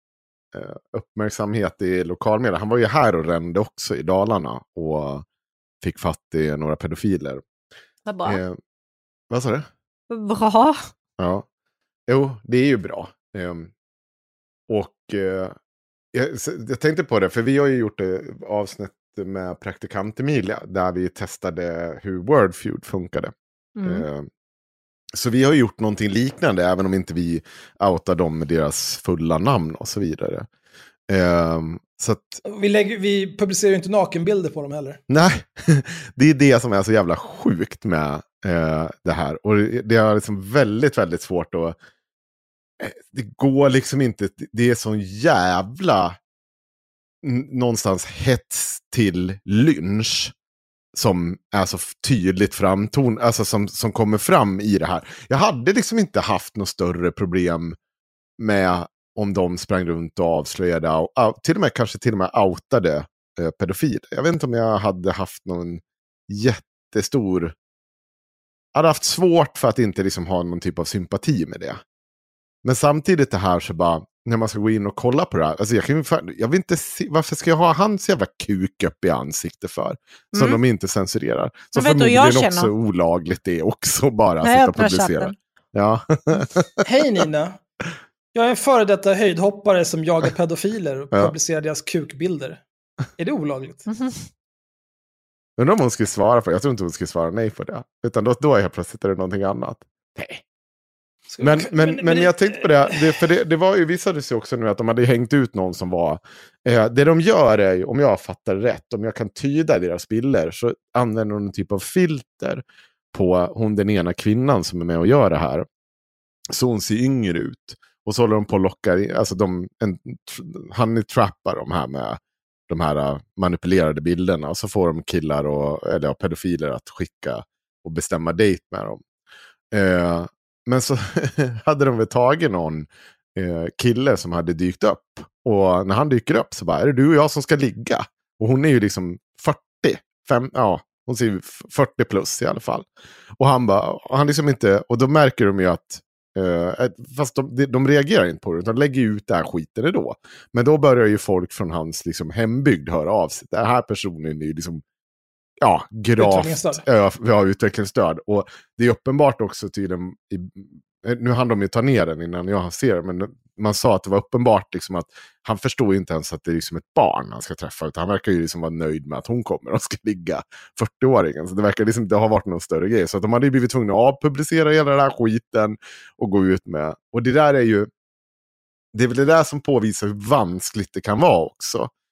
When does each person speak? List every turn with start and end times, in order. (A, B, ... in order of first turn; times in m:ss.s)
0:00.5-0:05.2 A
0:05.8-0:07.4 A
0:08.0-0:08.4 B
0:08.2-0:08.6 A
0:09.3-0:09.7 A
0:10.1-0:10.9 B
0:11.2-0:11.4 A
0:12.1-0:13.7 A
0:14.7-0:15.6 A
0:16.1-0:24.3 A
0:23.8-0:24.0 B
0:25.1-0:30.5 A
0:31.1-0:32.4 A
0:32.4-0:35.0 C
0:35.1-0:41.8 A
0:42.8-0:46.2 A
0:47.2-0:50.3 A
0:50.9-0:57.8 A
0:58.4-1:07.5 A
1:08.7-1:11.8 A
1:12.6-1:26.8 A
1:20.3-1:20.6 B
1:21.7-1:22.7 B
1:24.4-1:25.3 B
1:26.8-1:27.6 C
1:28.3-1:32.6 C
1:33.2-1:33.8 C
1:33.9-1:34.3 B
1:35.6-1:40.4 A
1:41.3-1:43.2 C
1:41.4-1:55.6 A
1:56.5-2:09.0 A
2:09.7-2:22.9 A
2:23.4-2:34.8 A
2:35.6-2:57.9 A
2:36.2-2:36.8 C
2:58.9-3:01.9 A